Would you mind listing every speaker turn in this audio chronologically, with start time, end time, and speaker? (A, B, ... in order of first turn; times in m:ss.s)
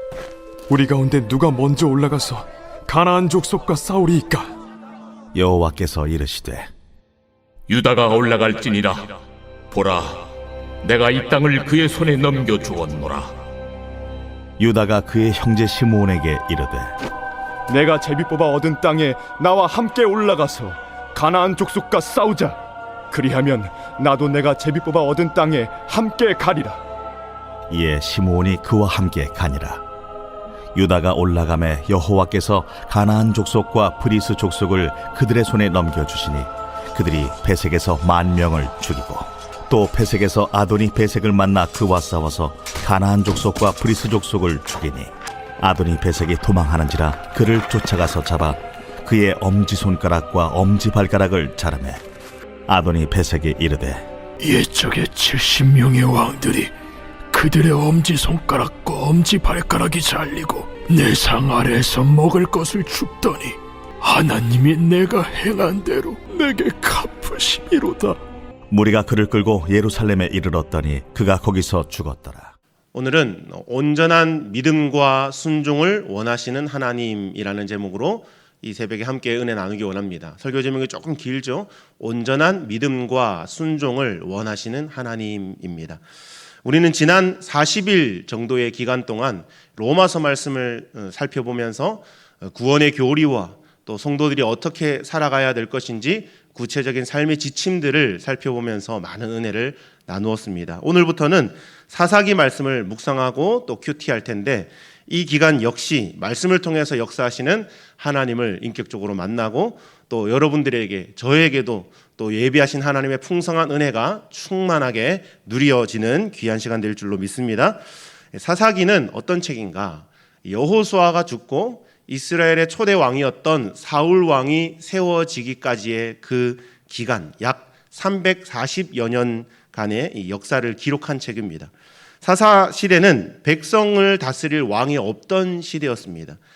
0:00.7-0:04.5 A
0:05.4-0:06.7 B
0:07.7-0:09.2 C
0:09.7-0:10.2 C
0:10.8-0:13.3 C
0:14.6-0:16.9 B
0:17.7-0:22.6 A
0:23.1-0:26.8 A
0:27.7-0:29.8 B
0:30.8-0:52.0 B
0:52.7-0:54.0 B
0:54.4-0:56.7 D
0:57.3-1:08.2 D
1:08.7-1:12.5 B
1:12.9-1:26.0 E
1:26.6-1:57.8 E
1:58.3-2:16.4 E